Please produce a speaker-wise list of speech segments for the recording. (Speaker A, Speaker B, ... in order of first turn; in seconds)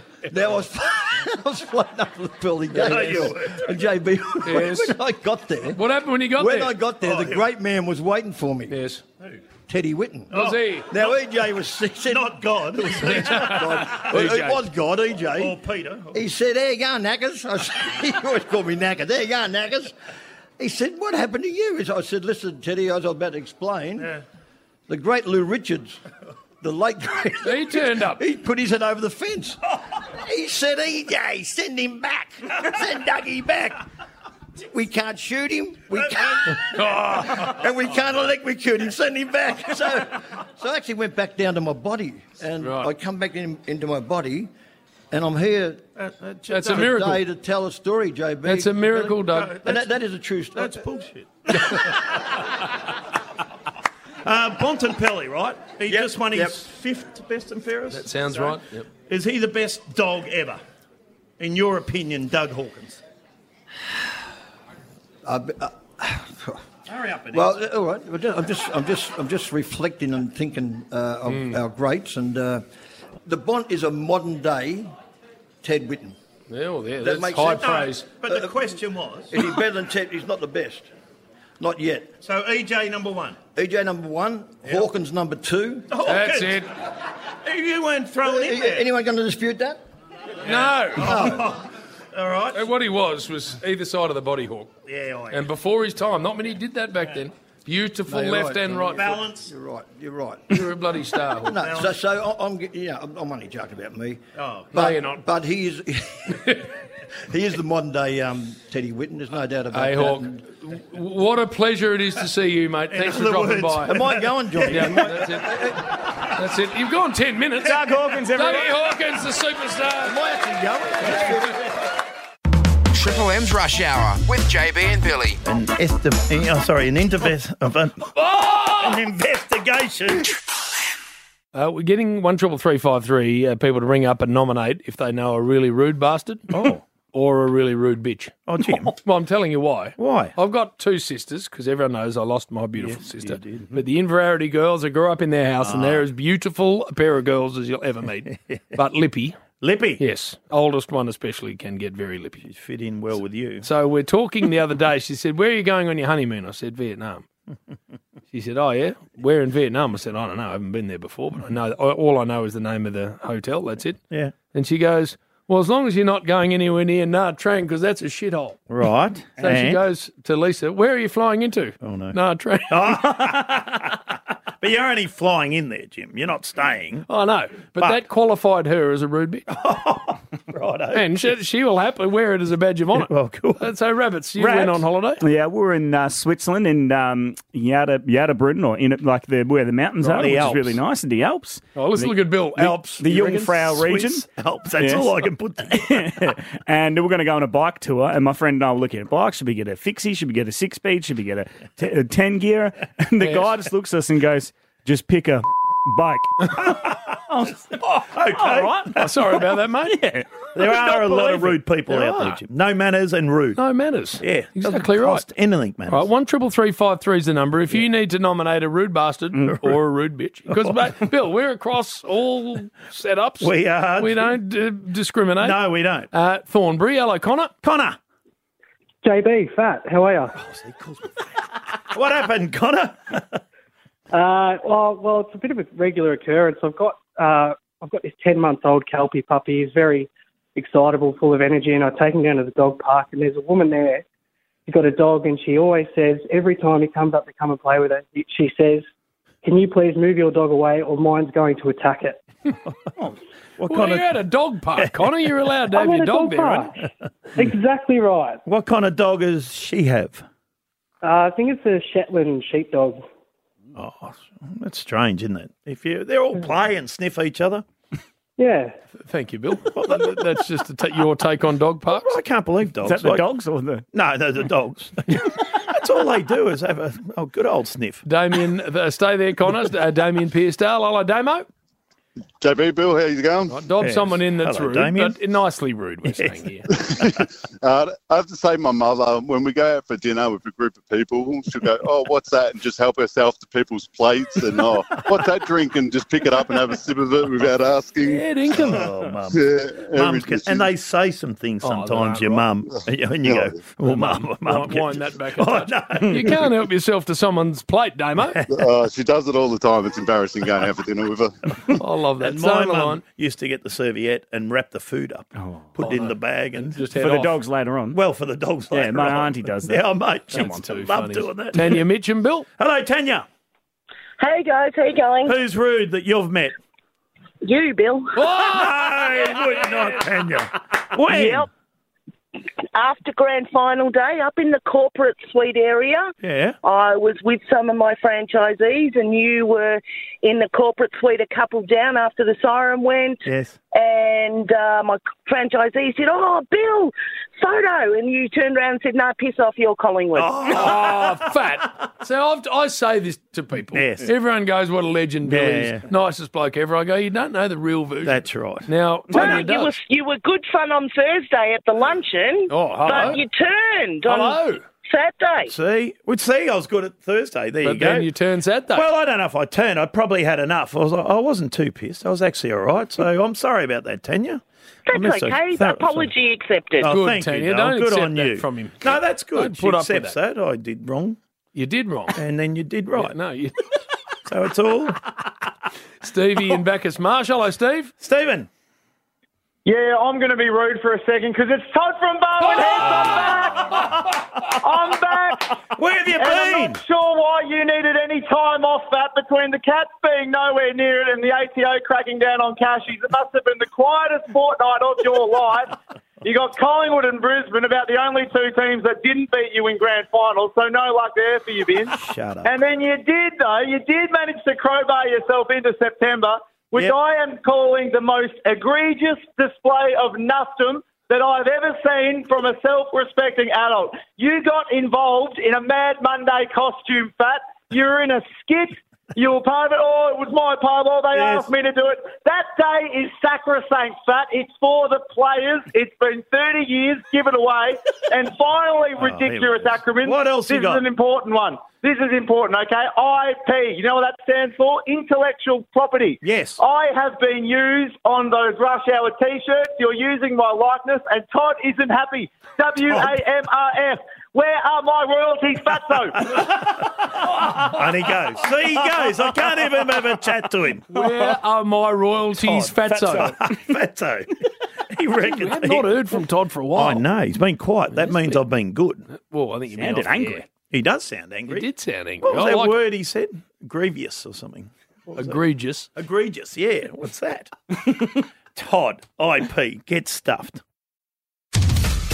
Speaker A: 0.3-5.8, 6.3-8.8, 9.7-10.3, 10.9-12.4, 13.1-15.6, 16.1-19.9, 20.6-24.1, 24.9-26.0, 26.6-29.6, 30.1-33.8, 34.7-44.5, 45.1-45.8, 46.7-50.8, 55.9-56.5, 65.2-66.6, 67.3-72.7, 73.2-74.9, 75.6-76.2, 77.0-78.5, 79.3-80.9, 81.6-82.1, 83.5-85.9, 88.2-89.8, 91.0-91.5, 98.1-100.6, 101.4-104.2, 104.7-106.7, 107.3-110.4, 113.8-115.9, 120.0-121.7
Speaker B: 2.7-3.2, 4.5-5.0, 5.6-6.8, 8.7-9.0, 10.3-10.9, 13.0-14.6, 27.4-28.2, 36.6-37.5, 42.6-42.9, 46.5-47.2, 48.5-49.6, 57.9-58.8, 71.3-71.6, 76.5-78.1, 86.0-86.7, 90.5-91.4, 92.5-94.7, 95.3-99.2, 100.5-101.7, 104.7-105.2, 109.7-114.0, 114.7-115.7, 116.3-120.2, 121.0-121.4, 128.2-129.0, 131.5-149.4, 150.0-152.4, 153.6-157.2, 158.3-164.0, 164.5-168.6, 169.4-173.2, 177.1-179.4, 180.9-185.2, 191.8-193.6, 203.2-203.5, 208.9-210.1, 211.9-212.4, 213.6-215.2, 215.9-227.5, 253.7-256.8, 269.0-272.2, 278.1-281.5, 283.5-286.7, 298.0-298.9, 301.6-302.5, 303.8-308.4, 311.8-313.0, 315.8-317.4, 320.3-322.5, 328.2-329.6, 350.5-359.8, 362.5-363.2, 364.1-364.6, 367.6-368.9, 376.9-380.1, 381.6-382.2, 382.9-383.6, 386.0-387.9, 392.4-394.0, 460.9-463.4, 465.2-467.0, 467.9-468.4, 469.1-470.5, 471.5-472.8, 475.1-475.9
Speaker C: 2.7-4.0, 7.0-7.5, 10.3-14.4, 15.3-16.2, 46.0-46.9, 49.3-50.0, 50.5-52.1, 54.2-60.6, 61.4-63.0, 66.9-67.6, 77.4-79.4, 82.2-83.4, 85.9-86.7, 87.4-88.9, 90.4-92.7, 94.9-95.5, 98.8-99.5, 101.6-102.0, 104.4-104.7, 112.9-115.1, 125.5-130.3, 136.5-136.8, 138.5-139.0, 140.0-140.3, 142.8-143.7, 145.6-146.0, 149.6-150.0, 152.4-153.7, 168.7-169.8, 171.8-172.2, 172.7-177.1, 179.5-181.1, 182.9-183.6, 184.4-184.8, 190.2-190.8, 193.6-196.2, 208.0-209.1, 210.6-213.6, 214.2-216.1, 220.5-220.8, 223.4-224.4, 225.4-226.1, 227.6-228.0, 230.4-233.4, 253.0-254.1, 258.5-260.2, 263.8-267.6, 269.7-270.2, 271.9-273.2, 273.9-278.0, 283.8-285.2, 286.1-286.4, 298.5-306.5, 312.2-316.9, 317.9-321.8, 322.6-323.3, 325.3-326.5, 328.4-331.5, 336.2-336.6, 343.2-343.6, 350.1-351.3, 353.7-354.1, 355.2-355.9, 358.0-358.7, 365.5-368.1, 368.7-376.1, 376.8-381.2, 382.1-383.1, 384.3-385.0, 388.0-388.5, 395.8-396.8, 412.0-412.5, 431.1-431.5, 439.0-440.8, 446.2-446.6, 452.9-453.1, 456.2-460.9, 462.4-464.4, 464.9-466.0, 466.8-469.1, 470.7-471.7, 472.2-475.4, 475.9-480.6
Speaker D: 117.6-118.8, 185.2-194.2, 194.8-209.0, 209.9-211.6, 272.8-273.8, 315.4-315.7, 316.9-318.0, 318.7-320.8, 469.8-470.4
Speaker E: 122.9-125.4
Speaker F: 229.0-230.3, 234.1-244.1, 244.7-248.9, 249.4-252.2, 255.7-256.8, 257.4-258.4, 261.0-263.1, 268.4-268.8
Speaker G: 282.4-283.7, 286.7-298.3, 299.3-300.7, 303.2-303.6, 308.5-311.4
Speaker H: 324.2-325.3, 327.4-328.0, 331.1-331.5, 332.8-336.0, 336.6-343.2, 343.8-346.9, 347.4-350.3, 359.1-364.4, 364.9-365.5, 374.9-376.9
Speaker I: 389.6-395.6, 396.2-456.4